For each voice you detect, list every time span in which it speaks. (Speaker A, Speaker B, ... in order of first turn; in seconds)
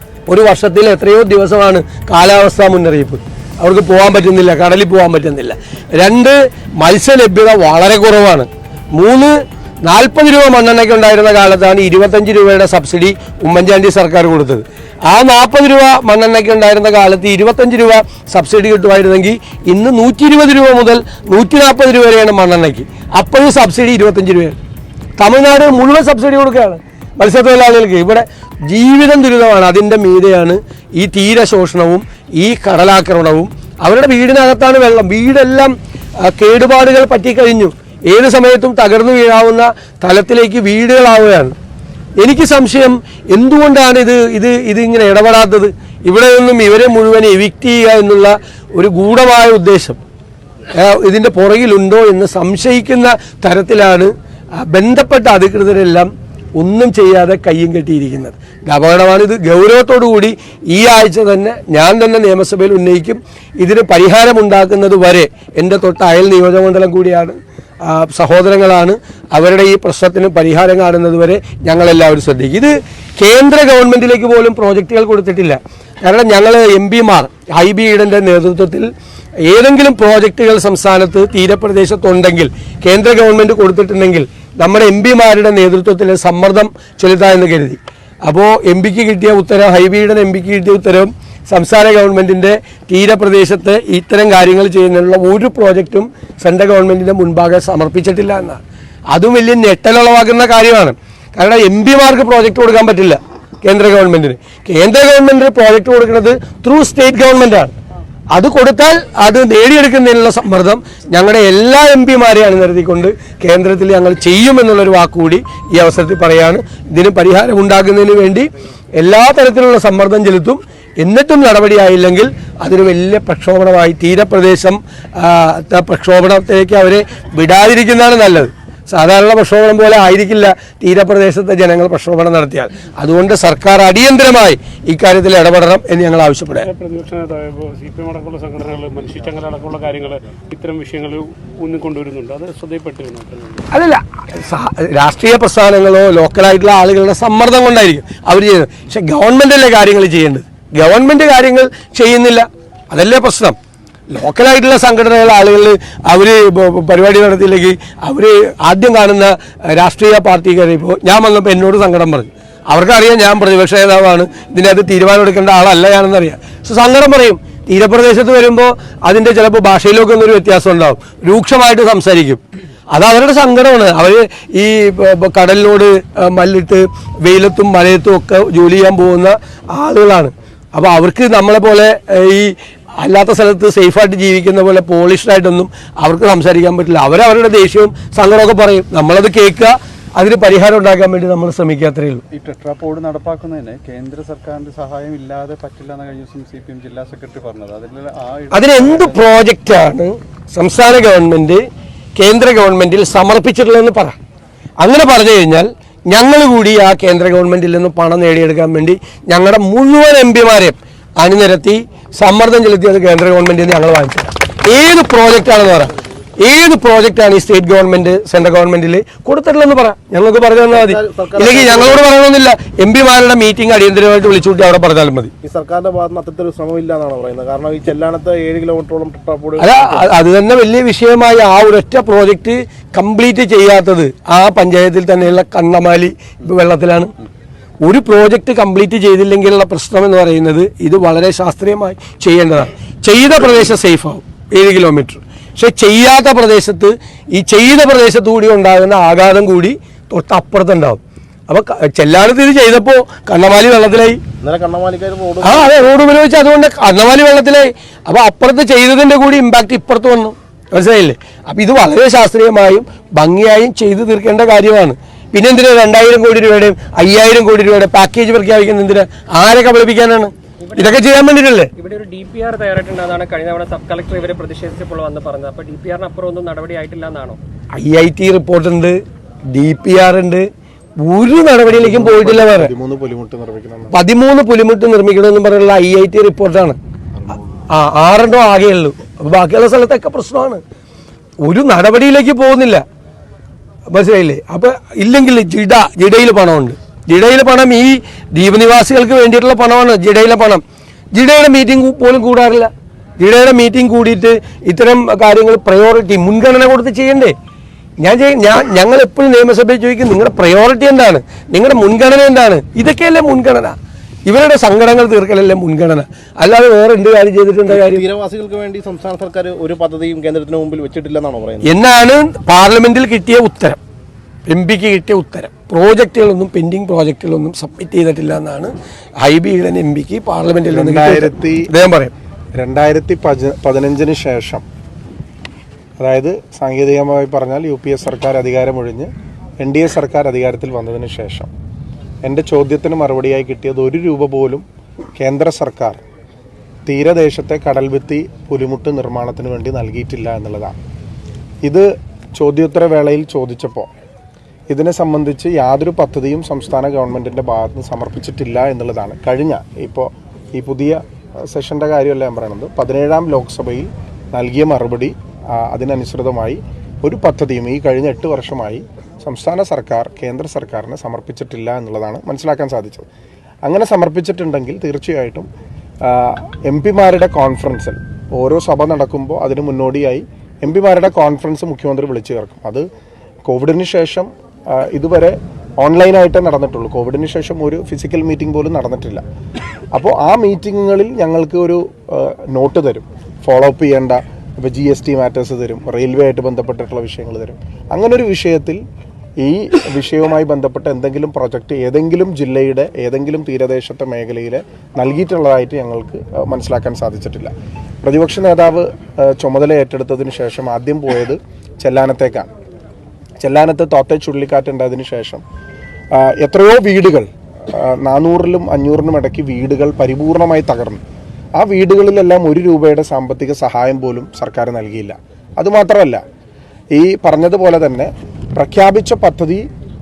Speaker A: 0.3-24.6, 25.2-41.5, 42.2-50.0, 50.8-78.9, 79.4-98.6, 99.1-107.7, 108.3-136.7, 143.7-153.6, 154.1-192.2, 198.5-201.6, 202.2-204.2, 204.8-225.3, 229.6-237.1, 237.8-254.2, 255.4-271.7, 277.8-279.0, 279.5-280.5, 281.0-282.7, 283.9-286.8, 287.7-290.6, 291.4-292.8, 293.9-307.4, 308.0-318.0, 321.7-323.8, 324.5-332.1
Speaker B: 136.7-143.6
Speaker C: 192.3-199.3
Speaker D: 220.7-222.0, 225.4-230.1, 254.4-255.9, 317.7-321.7
Speaker E: 270.7-271.0, 271.8-277.4
Speaker F: 281.7-284.0, 330.6-331.7, 332.6-334.6, 336.0-339.1, 339.6-341.5, 342.2-344.6, 345.2-346.0, 346.9-350.8, 352.4-353.9, 354.7-373.1, 373.6-375.5, 376.1-382.9, 383.5-389.2, 389.9-398.8, 399.4-407.5, 408.0-412.5, 413.4-415.4, 416.1-421.0, 421.6-426.2, 426.9-429.6